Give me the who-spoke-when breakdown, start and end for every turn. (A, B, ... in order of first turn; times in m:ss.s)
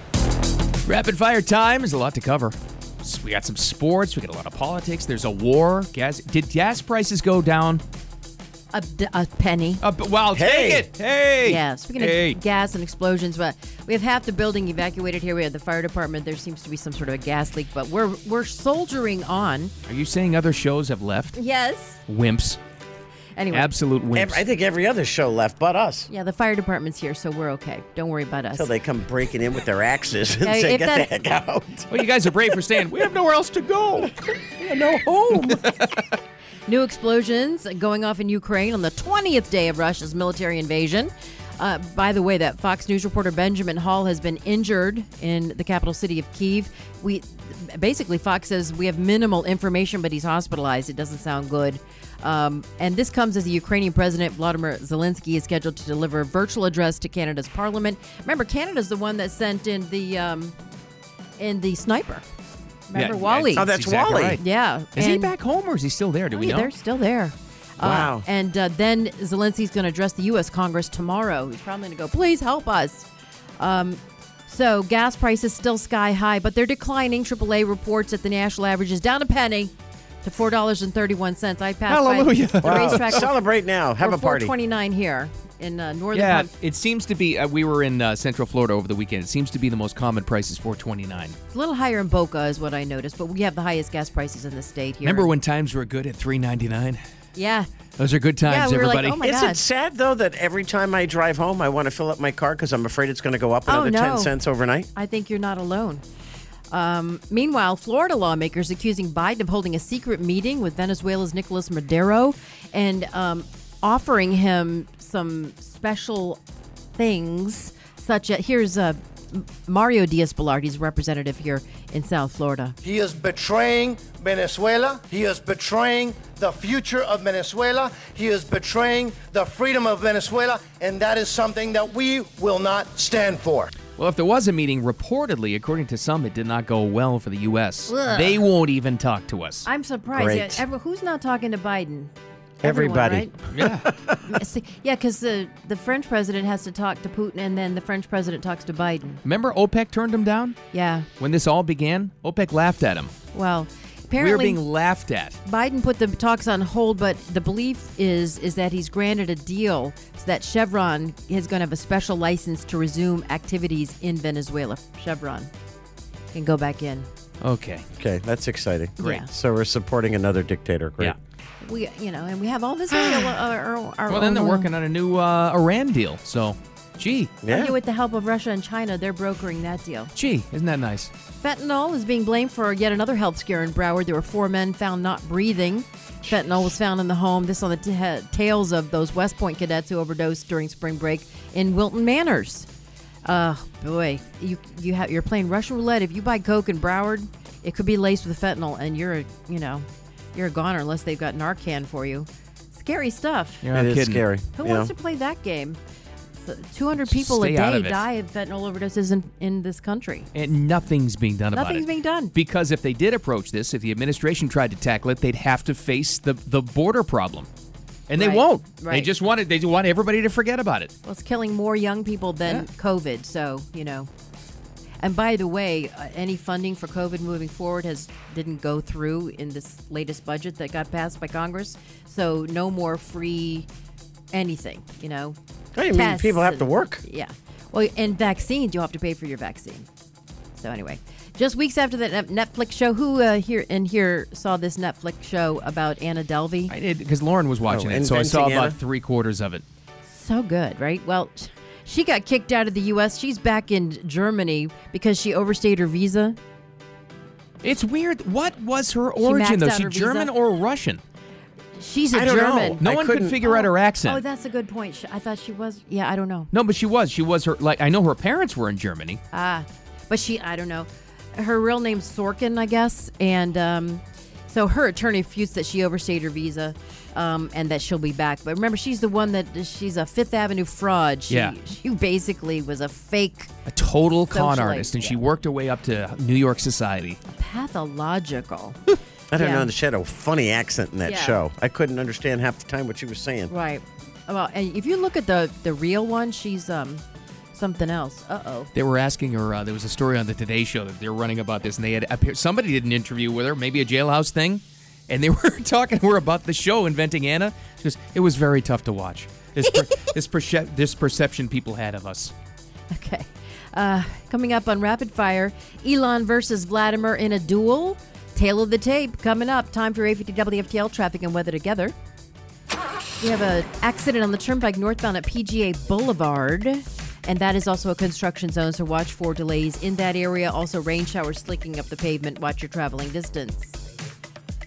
0:00.8-0:07.8 A
0:08.7-0:09.8 B
0:09.8-0:12.4 A
0:10.3-0:10.9 C
0:11.4-0:19.7 B
0:19.9-0:21.4 A
0:21.3-0:22.0 B
0:22.1-0:22.6 A
0:23.4-0:23.7 B
0:23.5-0:24.4 A
0:24.1-0:26.1 C
0:26.1-0:28.7 B
0:28.5-0:32.1 C
0:30.4-0:31.1 B
0:31.9-0:34.1 A
0:34.0-0:35.6 C
0:35.4-0:35.7 A
0:36.6-1:00.5 B
1:01.4-1:02.2 B
1:02.9-1:03.7 B
1:02.9-1:06.7 A
1:03.6-1:04.4 C
1:04.4-1:05.3 B
1:06.3-1:13.1 B
1:07.8-1:08.2 C
1:13.6-1:19.7 B
1:20.2-1:23.3 B
1:21.9-1:23.2 A
1:22.6-1:24.5 C
1:24.0-1:26.5 B
1:26.1-1:31.3 A
1:31.5-1:35.3 B
1:35.0-1:37.0 A
1:37.3-1:37.7 B
1:38.0-1:39.2 A
1:38.4-1:39.6 B
1:39.2-1:44.9 C
1:43.7-1:44.3 B
1:44.9-1:46.0 B
1:46.7-1:56.4 B
1:57.0-2:02.8 B
2:02.8-2:13.7 D
2:14.0-2:19.6 A
2:17.9-2:18.4 B
2:19.6-2:22.1 B
2:20.1-2:20.6 C
2:22.6-2:24.4 C
2:22.6-2:23.4 B
2:23.5-2:23.9 A
2:24.2-2:29.2 B
2:29.2-2:30.6 A
2:30.7-2:31.1 B
2:31.2-2:33.1 A
2:33.3-2:34.6 B
2:34.2-2:35.4 A
2:35.4-2:45.5 B
2:46.3-2:47.1 B
2:47.4-2:47.8 A
2:47.9-2:51.1 C
2:49.0-2:49.3 B
2:51.6-2:54.7 B
2:54.1-2:57.3 A
2:57.4-2:57.8 C
2:57.5-3:00.1 B
3:00.1-3:01.1 A
3:01.4-3:12.7 B
3:06.2-3:06.7 C
3:13.2-3:23.6 B
3:23.6-3:24.3 A
3:23.7-3:24.9 C
3:24.6-3:25.8 B
3:26.4-3:30.3 B
3:27.0-3:28.0 A
3:30.3-3:37.5 A
3:31.5-3:32.3 B
3:38.1-3:40.9 A
3:38.2-3:39.1 B
3:41.0-3:44.1 B
3:45.0-3:53.7 B
3:54.3-3:59.9 B
3:55.7-3:57.0 C
4:00.6-4:06.7 B
4:06.7-4:09.6 A
4:07.7-4:08.8 C
4:10.0-4:16.4 B
4:17.6-4:21.0 A
4:19.2-4:20.3 B
4:21.8-4:22.8 B
4:22.1-4:23.4 C
4:22.8-4:24.2 A
4:23.4-4:26.5 B
4:26.5-4:29.2 A
4:29.3-4:43.5 B
4:41.3-4:41.5 A
4:43.6-4:47.2 A
4:44.3-4:45.2 B
4:47.3-4:48.8 B
4:49.3-4:53.5 C
4:49.4-4:49.7 B
4:51.0-4:51.4 B
4:53.5-4:58.7 B
4:58.7-5:12.3 A
5:12.9-5:21.9 B
5:23.2-5:33.8 B